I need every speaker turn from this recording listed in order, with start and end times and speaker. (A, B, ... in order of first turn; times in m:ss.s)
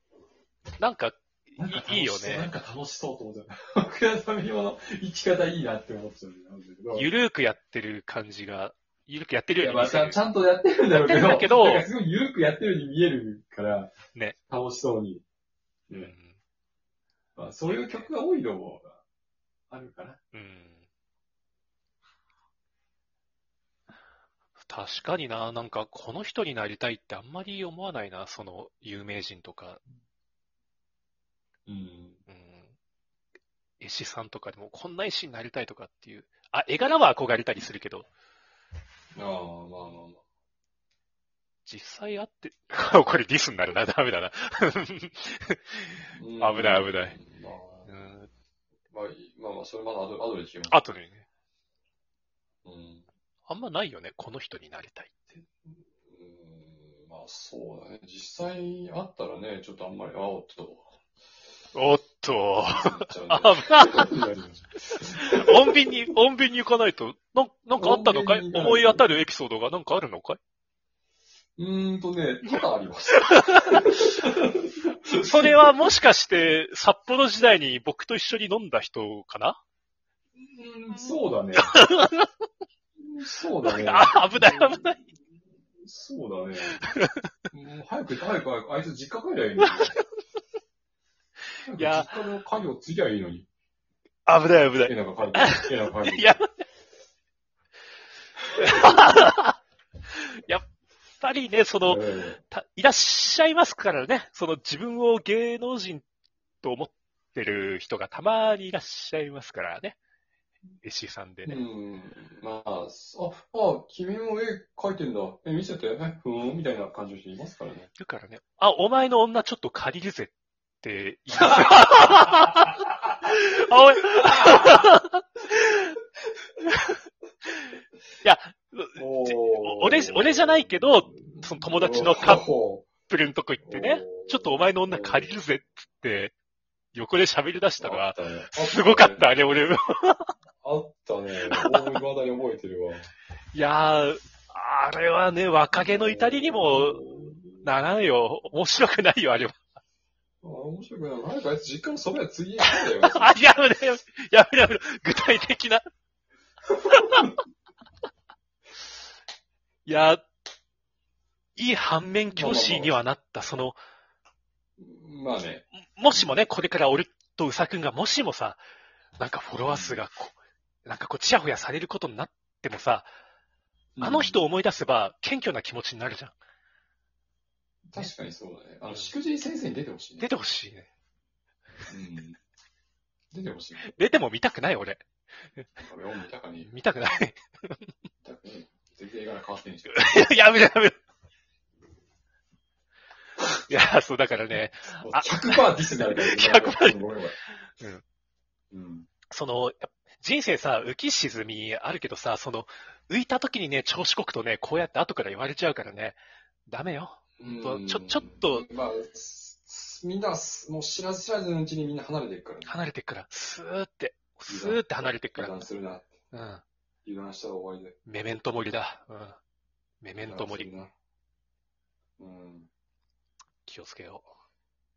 0:00.8-0:02.5 A
0:01.6-0:07.1 B
0:06.9-0:10.2 A
0:09.6-0:13.9 B
0:10.9-0:11.9 A
0:14.5-0:15.2 B
0:15.9-0:16.4 A
0:17.4-0:19.0 B
0:17.7-0:18.1 A
0:19.7-0:20.2 B
0:20.3-0:20.8 A
0:24.6-0:29.8 A
0:31.7-0:32.2 B
0:32.3-0:32.7 A
0:33.8-0:38.1 A
0:39.2-0:40.2 B
0:41.7-0:47.2 A
0:46.1-0:47.9 B
0:47.9-0:48.3 A
0:48.9-0:50.8 B
0:50.7-0:51.2 A
0:52.6-0:53.1 B
0:53.5-0:55.4 A
0:56.1-1:00.9 B
1:01.7-1:04.2 A
1:02.7-1:05.9 B
1:04.9-1:10.4 A
1:07.8-1:09.1 B
1:11.6-1:15.8 B
1:13.1-1:13.6 A
1:15.2-1:19.6 A
1:20.4-1:21.8 B
1:21.6-1:22.3 A
1:23.0-1:24.7 B
1:23.7-1:25.0 A
1:25.8-1:26.8 B
1:26.9-1:27.3 A
1:27.5-1:30.0 B
1:29.6-1:30.0 A
1:31.6-1:33.5 B
1:31.8-1:32.2 A
1:34.3-1:36.5 A
1:34.8-1:36.4 B
1:38.6-1:39.6 A
1:40.1-1:40.6 A
1:41.2-1:46.0 A
1:41.8-1:42.4 B
1:46.6-1:50.0 A
1:50.8-1:51.6 A
1:51.4-1:57.9 B
1:58.0-2:06.0 A
2:08.2-2:12.4 A
2:09.0-2:12.9 B
2:13.1-2:16.3 A
2:13.6-2:15.4 B
2:16.9-2:20.3 A
2:17.8-2:19.7 B
2:20.6-2:23.1 B
2:21.4-2:22.0 A
2:23.5-2:27.0 A
2:25.7-2:27.7 B
2:27.6-2:29.6 A
2:30.4-2:33.4 B
2:32.6-2:35.9 A
2:37.0-2:37.3 A
2:39.9-2:40.3 A
2:41.6-2:43.8 A
2:42.3-2:43.0 B
2:44.8-2:46.4 B
2:45.9-2:48.6 A
2:49.2-2:53.1 A
2:49.7-2:50.0 B
2:54.0-2:54.4 B
2:54.0-2:56.4 A
2:57.9-3:00.3 B
3:00.2-3:00.9 A
3:01.9-3:02.4 B
3:03.3-3:03.9 B
3:03.8-3:05.0 A
3:05.8-3:06.7 B
3:06.6-3:07.9 A
3:08.2-3:10.2 B
3:09.9-3:11.0 A
3:13.7-3:17.0 A
3:15.0-3:17.4 B
3:17.6-3:18.0 A
3:18.7-3:19.1 B
3:19.3-3:28.7 A
3:27.4-3:32.8 B
3:32.7-3:35.6 A
3:34.5-3:36.2 B
3:36.3-3:36.6 A
3:37.0-3:38.0 B
3:38.1-3:39.4 A
3:40.0-3:40.7 A
3:40.2-3:40.9 B
3:42.2-3:42.7 B
3:43.7-3:44.3 A